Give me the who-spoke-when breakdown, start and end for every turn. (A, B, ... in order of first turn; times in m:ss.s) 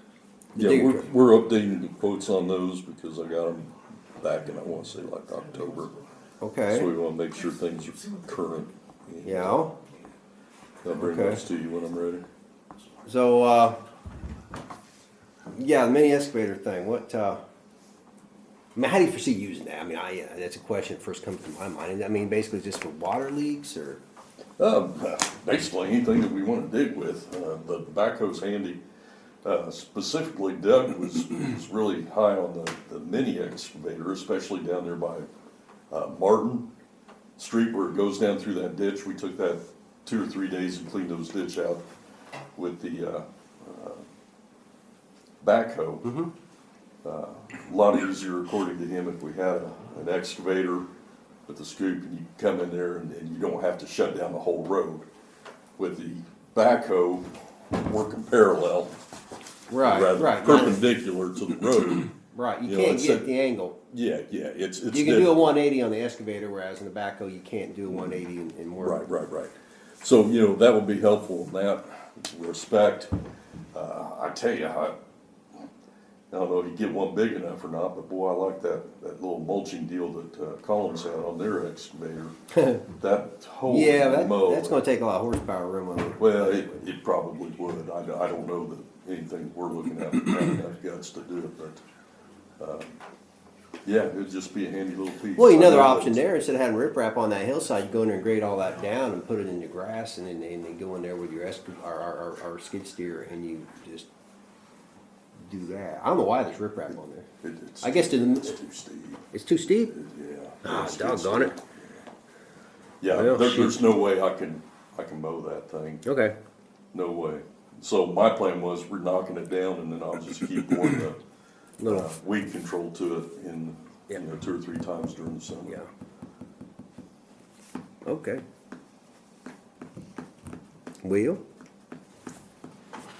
0:00.5-0:01.0 A
0:00.6-0:06.0 B
0:06.4-0:06.9 A
0:06.7-0:09.6 B
0:09.2-0:09.8 A
0:10.8-0:12.2 B
0:11.0-0:11.4 A
0:13.0-0:13.8 A
0:15.5-0:17.4 A
0:18.8-0:24.0 A
0:24.6-0:28.8 B
0:29.4-0:35.3 B
0:35.9-0:36.7 B
0:37.4-0:41.8 B
0:42.6-0:44.0 B
0:45.4-0:46.2 B
0:46.0-0:46.3 A
0:47.0-0:50.8 B
0:51.5-0:55.0 B
0:55.8-0:59.0 B
0:59.7-1:00.8 A
0:59.8-1:02.1 B
1:02.3-1:03.8 A
1:02.6-1:03.3 B
1:03.9-1:05.4 B
1:04.9-1:09.0 A
1:08.8-1:13.1 B
1:13.7-1:15.0 B
1:16.3-1:22.3 B
1:22.9-1:24.8 B
1:23.7-1:26.8 A
1:26.2-1:31.8 B
1:32.6-1:33.0 B
1:33.8-1:36.2 B
1:35.3-1:44.1 A
1:45.4-1:47.3 A
1:47.4-1:49.3 B
1:47.8-1:48.6 A
1:49.3-1:49.9 A
1:49.9-1:52.0 B
1:50.6-1:51.5 A
1:53.0-1:56.0 B
1:53.1-1:53.8 A
1:56.0-1:56.4 A
1:56.9-2:01.2 B
2:01.8-2:02.1 A
2:01.8-2:05.8 B
2:08.0-2:08.4 A
2:11.0-2:11.4 A